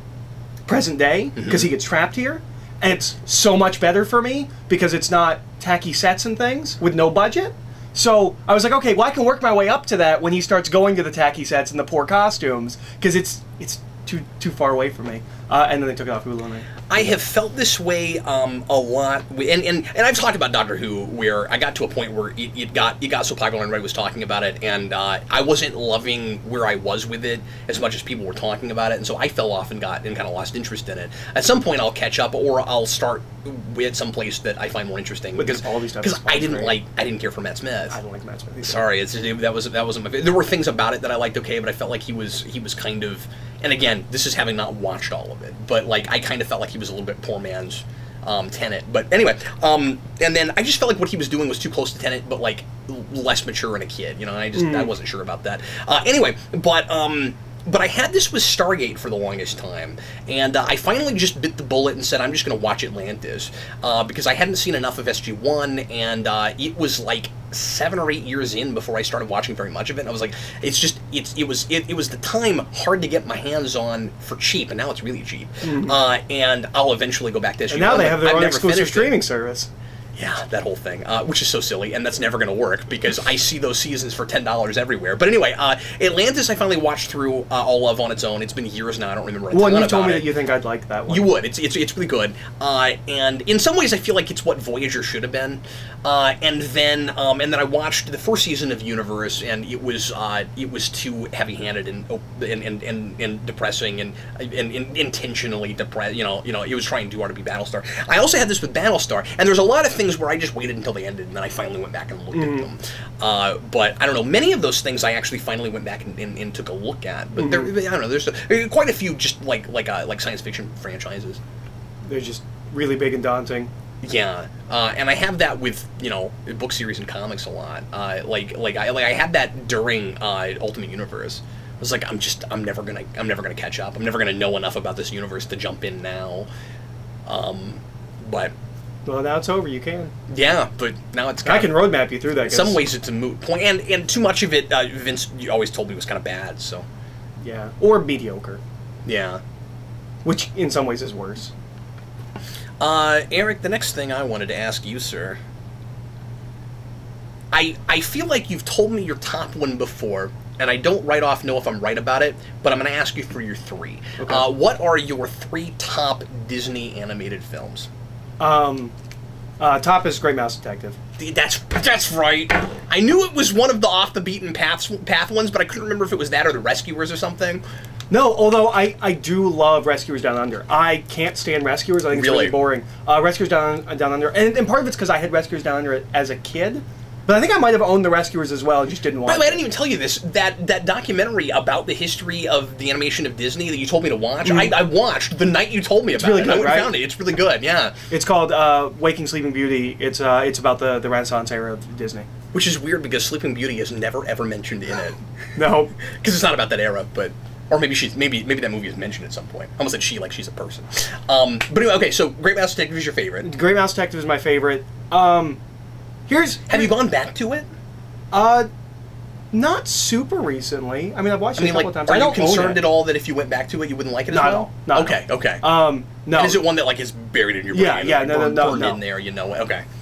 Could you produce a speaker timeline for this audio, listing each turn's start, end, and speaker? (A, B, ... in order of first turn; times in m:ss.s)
0:00.7-0:16.8 A
0:01.4-0:01.7 B
0:16.9-0:38.0 B
0:35.4-0:36.8 A
0:37.9-0:38.8 A
0:38.6-1:19.2 B
0:54.6-0:54.9 A
1:15.6-1:16.0 A
1:17.7-1:19.7 A
1:20.2-1:30.3 B
1:29.5-1:31.3 A
1:31.1-2:01.4 B
1:52.3-1:52.7 A
1:57.4-1:57.7 A
2:02.1-2:03.7 A
2:04.0-2:16.5 B
2:17.3-2:18.5 B
2:19.1-2:20.1 A
2:20.3-2:26.9 B
2:21.4-2:22.8 A
2:27.4-2:28.6 A
2:29.0-2:29.4 B
2:30.2-2:31.5 A
2:32.8-2:35.4 B
2:37.5-2:47.9 B
2:44.2-2:44.5 A
2:48.4-2:48.9 A
2:49.6-2:51.0 A
2:51.2-2:57.6 B
2:58.1-3:09.6 A
3:02.1-3:02.6 B
3:09.3-3:18.0 B
3:14.4-3:14.8 A
3:16.2-3:17.0 A
3:18.1-3:22.3 A
3:22.5-3:25.2 B
3:25.6-3:25.9 A
3:26.1-3:33.5 B
3:33.4-3:35.6 A
3:36.3-3:37.0 A
3:36.7-3:37.7 B
3:38.3-3:38.7 A
3:39.5-3:42.8 A
3:41.6-3:45.6 B
3:44.3-3:46.6 A
3:46.3-3:49.8 B
3:47.7-3:49.0 A